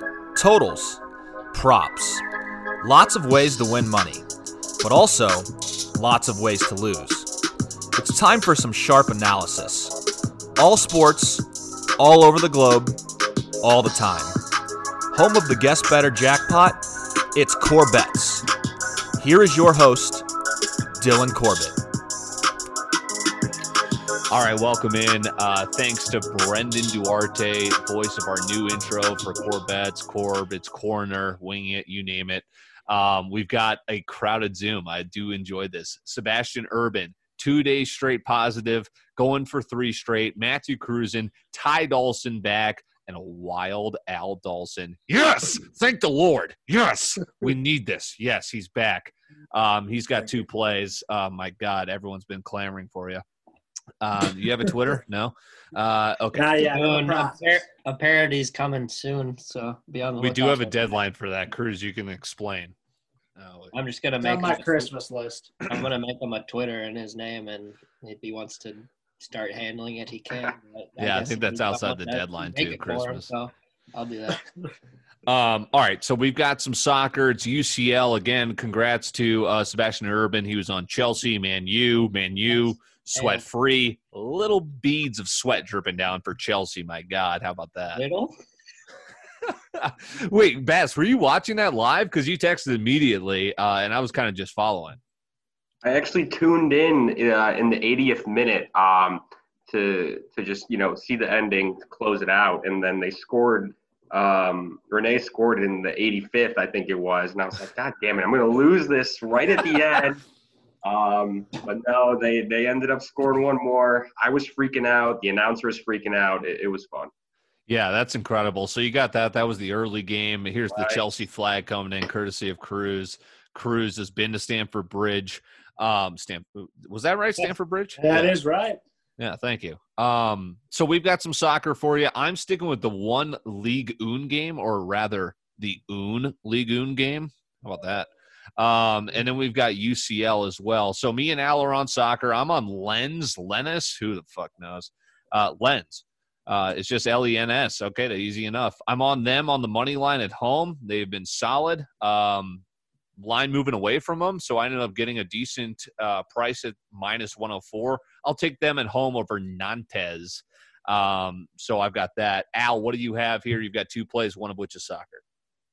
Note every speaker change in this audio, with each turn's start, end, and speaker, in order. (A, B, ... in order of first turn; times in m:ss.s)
0:00.4-0:01.0 A
0:01.5-0:02.2 A
0:02.8-0:04.1 B
0:03.0-0:03.6 A
0:04.8-0:05.4 A
0:06.0-0:07.2 B
0:06.1-0:07.2 A
0:08.0-0:09.8 B
0:08.6-0:09.0 A
0:10.6-0:11.4 B
0:12.0-0:12.9 B
0:13.6-0:14.1 B
0:14.0-0:14.3 A
0:15.1-0:16.6 B
0:17.4-0:18.4 B
0:19.2-0:20.2 B
0:21.0-0:21.8 B
0:24.3-0:53.2 A
0:54.0-0:56.5 A
0:56.3-0:57.6 C
0:56.6-1:01.0 D
1:00.2-1:02.7 A
1:03.4-1:03.7 A
1:03.7-1:04.9 D
1:04.2-1:05.5 C
1:05.7-1:14.4 D
1:11.0-1:13.3 A
1:15.3-1:28.0 A
1:22.5-1:23.4 D
1:27.9-1:28.3 D
1:29.8-1:35.0 A
1:35.8-1:50.2 E
1:50.8-1:57.1 E
1:57.7-2:08.4 A
2:00.7-2:01.1 E
2:08.0-2:08.8 C
2:09.2-2:32.6 A
2:33.2-2:45.2 A